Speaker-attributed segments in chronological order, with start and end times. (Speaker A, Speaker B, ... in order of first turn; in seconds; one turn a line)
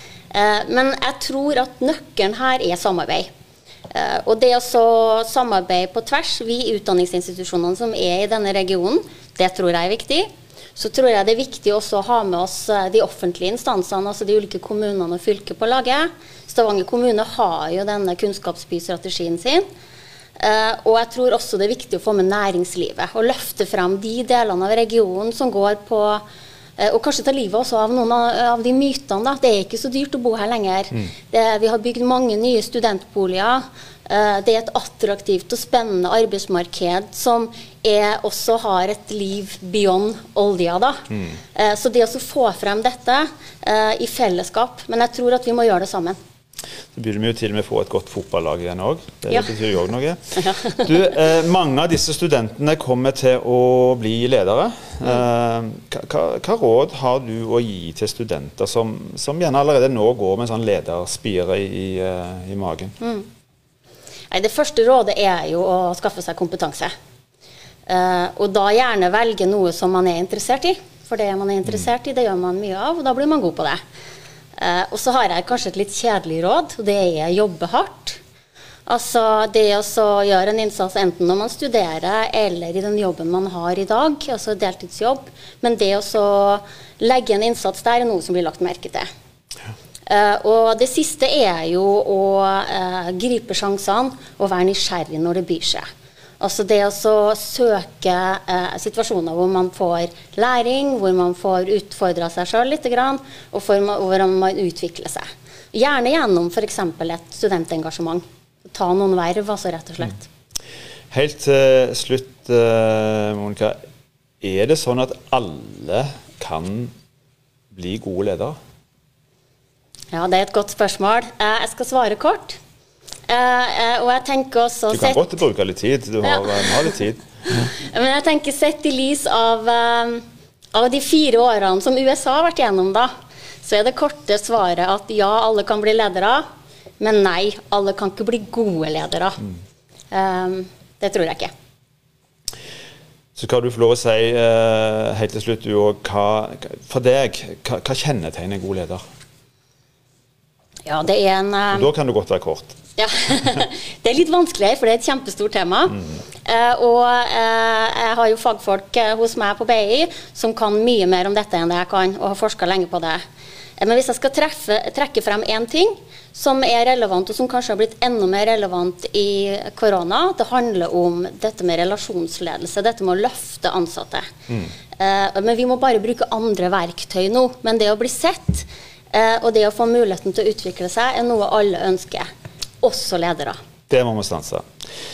Speaker A: 0.3-3.3
Speaker A: 3.9-19.6
Speaker A: 20.4-26.2
Speaker A: 26.8-46.2
Speaker B: 46.9-62.9
Speaker A: 50.4-50.9
Speaker A: 63.0-63.3
Speaker A: 64.3-66.9
Speaker A: 67.9-73.8
Speaker A: 74.6-78.2
Speaker A: 78.9-89.1
Speaker A: 90.1-95.8
Speaker A: 96.4-110.3
Speaker B: 111.1-113.8
Speaker B: 114.4-116.9
Speaker B: 117.7-118.6
Speaker A: 120.1-122.6
Speaker A: 123.3-125.3
Speaker B: 124.9-127.2
Speaker A: 127.5-133.1
Speaker A: 133.6-136.4
Speaker A: 137.0-139.4
Speaker A: 140.1-141.5
Speaker B: 143.4-149.0
Speaker A: 150.9-151.9
Speaker B: 151.7-152.8
Speaker A: 153.0-163.2
Speaker A: 163.8-174.3
Speaker A: 175.0-182.3
Speaker A: 182.8-183.6
Speaker B: 183.9-184.7